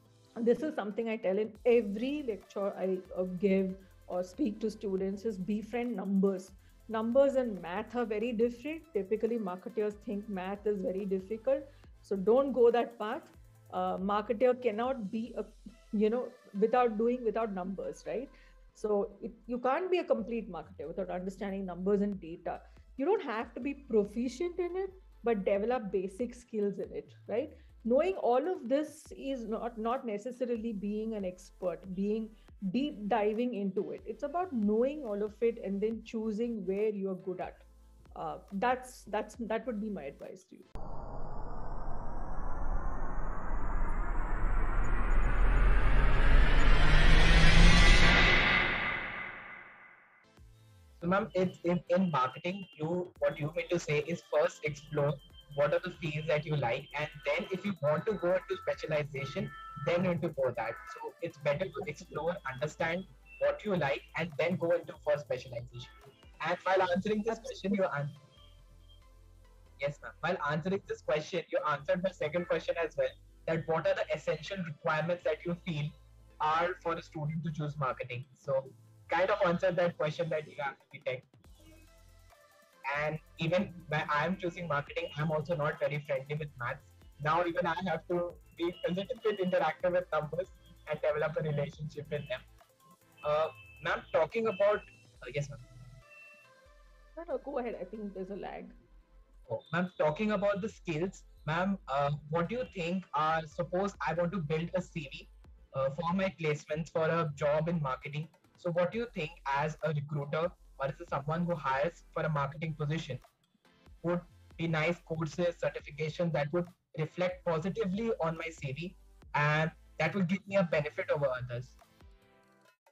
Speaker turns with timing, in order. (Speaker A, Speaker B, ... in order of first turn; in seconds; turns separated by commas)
Speaker A: 0.4-40.7, Speaker B: 51.0-68.2, Speaker A: 67.3-67.8, Speaker B: 69.8-81.3, Speaker B: 82.9-92.5, Speaker B: 93.2-95.6, Speaker A: 97.2-98.8, Speaker B: 99.5-113.2, Speaker B: 114.0-121.8